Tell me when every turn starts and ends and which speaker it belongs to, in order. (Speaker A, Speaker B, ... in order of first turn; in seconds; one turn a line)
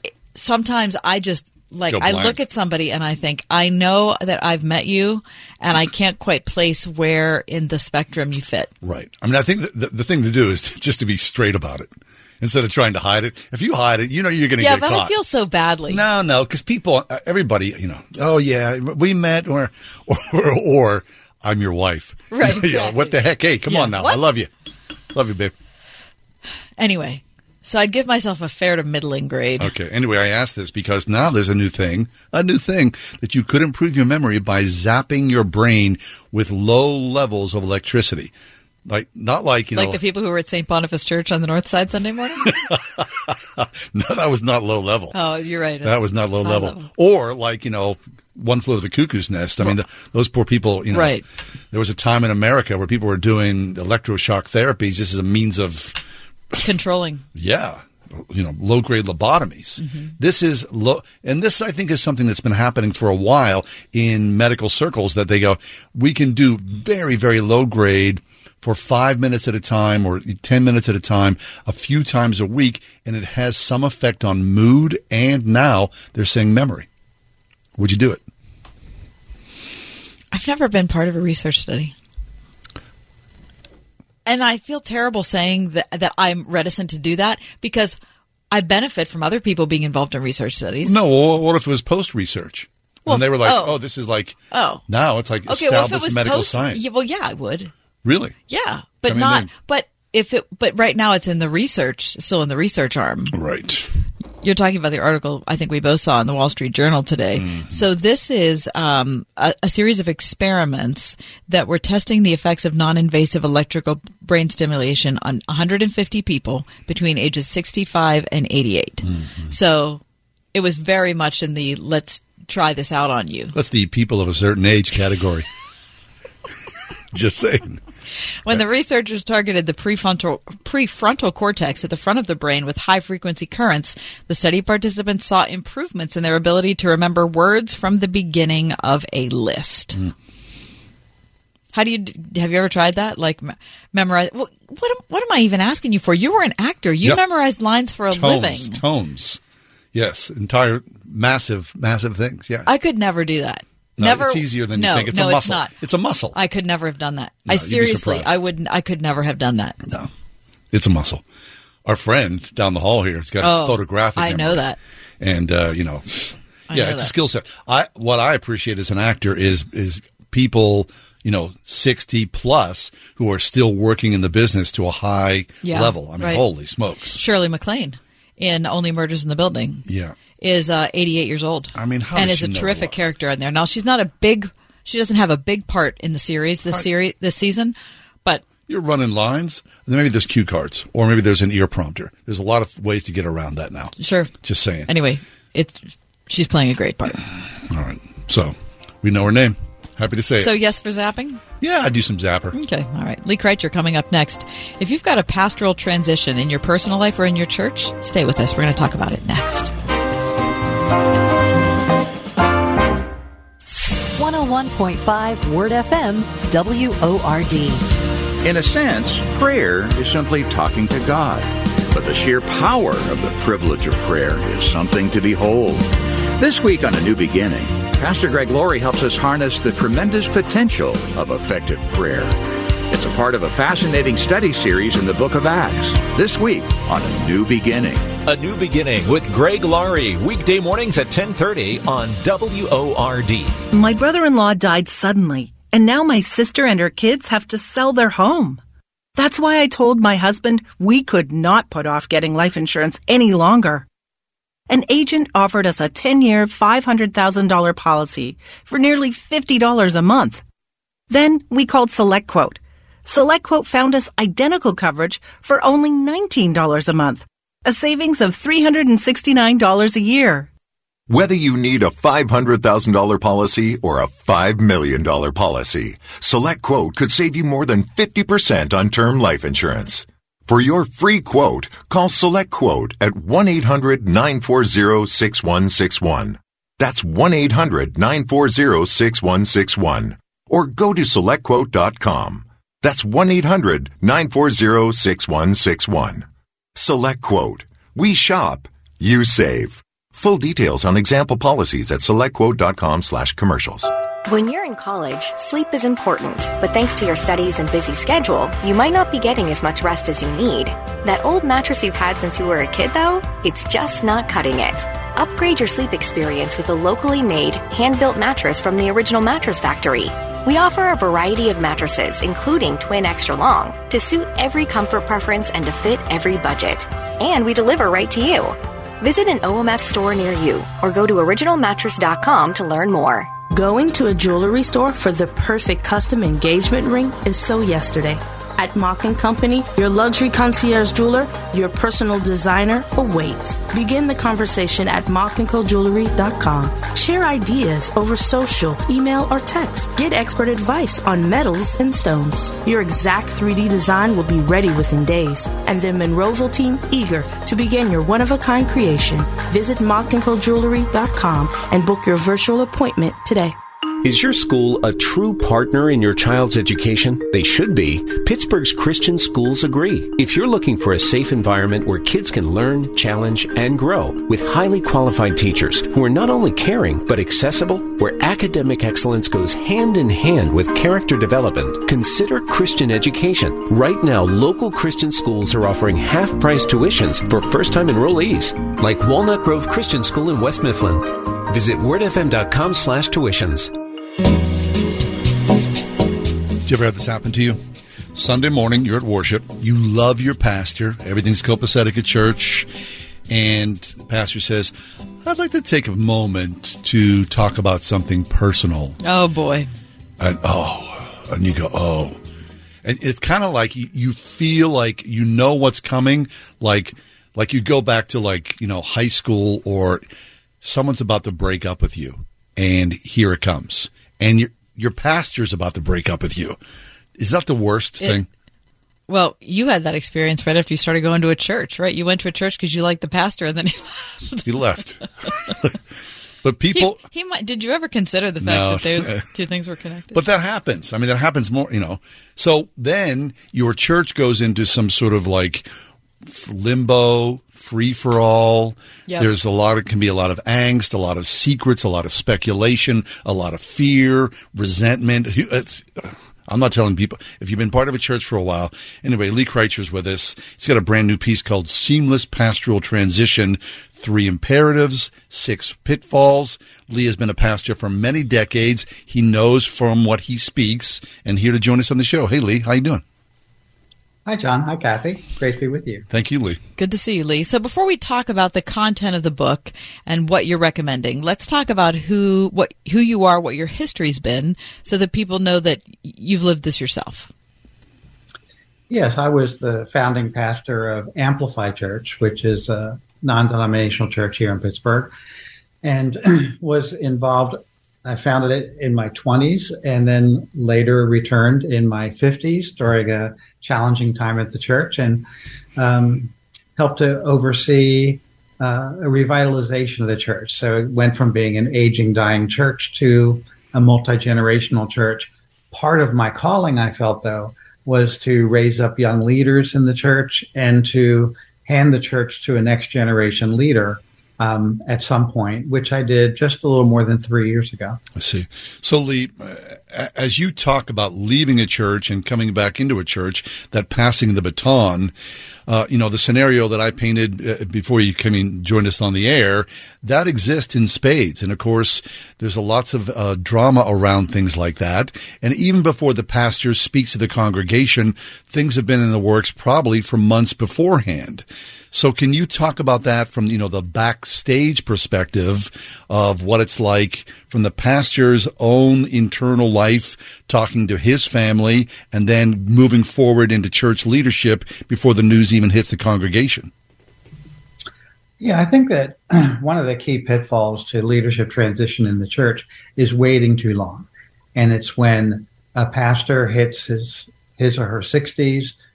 Speaker A: 0.3-8.7
Speaker B: 1.9-2.4
Speaker B: 8.8-15.1
Speaker A: 14.6-16.0
Speaker B: 15.9-24.5
Speaker A: 22.3-24.2
Speaker B: 25.1-25.5
Speaker A: 26.8-29.7
Speaker B: 29.6-38.3
Speaker B: 38.9-40.0
Speaker A: 39.7-42.5
Speaker B: 42.4-45.1
Speaker A: 45.1-46.9
Speaker B: 45.8-51.2
Speaker A: 50.9-51.2
Speaker B: 51.7-56.0
Speaker A: 56.6-57.2
Speaker B: 57.3-76.9
Speaker A: 59.8-60.1
Speaker B: 77.8-78.2
Speaker A: 80.3-81.9
Speaker A: 84.2-88.0
Speaker A: 88.5-91.0
Speaker B: 90.8-96.8
Speaker A: 93.1-93.8
Speaker A: 94.5-94.8
Speaker A: 95.5-97.7
Speaker B: 98.0-98.3
Speaker A: 98.5-103.3
Speaker B: 99.0-99.5
Speaker B: 103.3-103.9
Speaker A: 104.4-120.0
Speaker B: 107.3-107.8
Speaker B: 119.0-119.5
Speaker A: 120.5-123.5
Speaker B: 123.5-125.5
Speaker B: 127.1-127.8
Speaker A: 128.4-140.0
Speaker A: 141.7-148.8
Speaker B: 148.1-149.4
Speaker B: 149.9-152.7
Speaker A: 152.7-155.7
Speaker B: 154.0-156.3
Speaker A: 156.3-159.8
Speaker B: 157.5-158.3
Speaker B: 160.7-161.2
Speaker B: 161.8-164.6
Speaker A: 163.4-164.8
Speaker B: 165.2-177.2
Speaker A: 166.7-167.1
Speaker A: 175.6-176.4
Speaker A: 177.1-179.8
Speaker B: 179.9-180.2
Speaker A: 180.4-187.7
Speaker B: 181.7-182.9
Speaker B: 188.7-194.9
Speaker A: 194.0-194.3
Speaker A: 194.9-197.2
Speaker B: 197.7-200.5
Speaker A: 200.4-201.4
Speaker B: 201.6-202.6
Speaker A: 202.5-209.7
Speaker C: 214.2-217.8
Speaker D: 218.4-225.9
Speaker D: 226.4-232.4
Speaker D: 232.9-238.1
Speaker E: 238.2-243.6
Speaker F: 243.7-248.6
Speaker F: 249.2-253.8
Speaker F: 254.7-260.4
Speaker F: 261.1-270.5
Speaker G: 271.1-303.9
Speaker H: 304.2-333.3
Speaker I: 333.4-363.5
Speaker J: 364.0-393.7
Speaker B: 396.6-397.6
Speaker B: 398.1-402.7
Speaker B: 403.3-404.7
Speaker B: 405.2-409.0
Speaker A: 409.0-409.7
Speaker B: 410.2-412.2
Speaker B: 412.8-420.1
Speaker B: 420.6-426.6
Speaker B: 427.2-428.3
Speaker A: 429.1-434.4
Speaker B: 434.4-435.0
Speaker B: 436.4-437.0
Speaker A: 436.7-440.2
Speaker B: 438.4-439.2
Speaker B: 440.1-445.7
Speaker B: 446.2-473.0
Speaker K: 474.2-476.1
Speaker B: 476.1-476.6
Speaker A: 476.8-487.3
Speaker K: 488.9-495.1
Speaker K: 495.8-505.2
Speaker K: 505.8-528.0
Speaker B: 528.1-535.1
Speaker B: 535.7-566.7
Speaker K: 568.4-578.7